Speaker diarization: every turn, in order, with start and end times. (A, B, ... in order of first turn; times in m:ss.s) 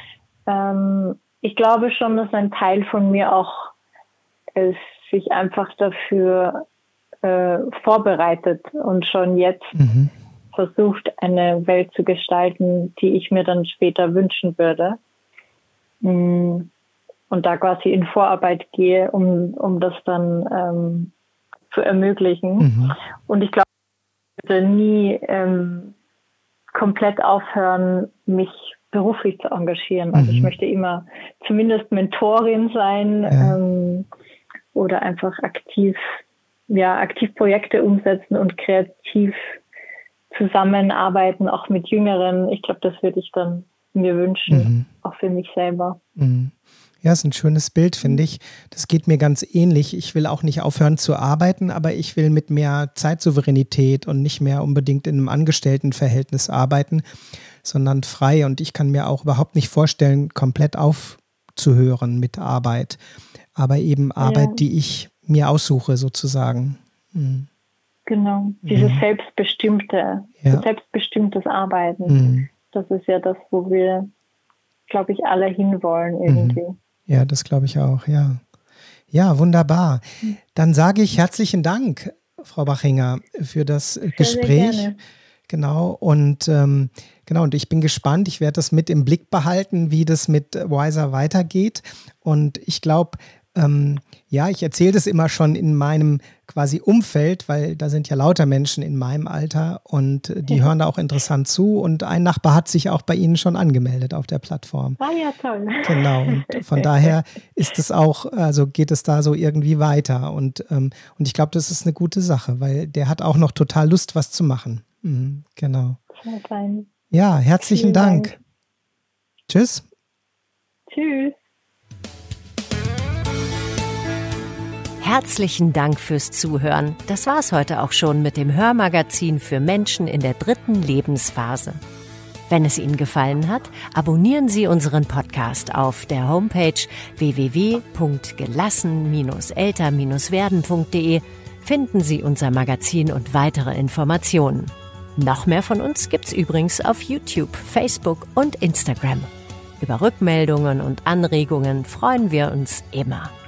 0:00.5-0:03.7 A
0:04.6-0:06.6 A
0:07.2-0:09.8 A
0:09.7-0:10.1 B
0:10.5-0:15.0 A
0:16.0-0:16.7 A
0:17.3-0:21.1 A
0:21.7-0:22.8 A
0:22.6-0:23.0 B
0:23.3-0:23.6 A
0:24.4-0:25.9 A
0:26.7-0:34.1 A
0:30.1-0:30.5 B
0:33.3-0:33.6 B
0:34.7-0:36.1 A
0:36.7-0:39.6 A
0:40.3-0:46.0 A
0:44.5-0:44.8 B
0:46.2-0:57.0 B
0:57.6-1:03.0 B
1:03.5-1:07.5 B
1:04.2-1:04.6 A
1:08.1-1:12.2 A
1:08.6-1:09.0 B
1:12.0-1:12.5 B
1:12.7-1:14.1 A
1:14.9-1:16.8 A
1:16.3-1:18.4 B
1:19.1-1:24.9 B
1:24.1-1:25.0 A
1:25.5-1:45.0 B
1:45.0-1:47.1 A
1:45.8-1:56.0 B
1:56.1-1:56.9 A
1:57.1-1:58.4 B
1:57.6-1:58.4 A
1:59.5-1:59.8 B
2:00.9-2:01.4 A
2:05.0-2:11.8 C
2:12.5-2:29.3 C
2:29.8-2:33.3 C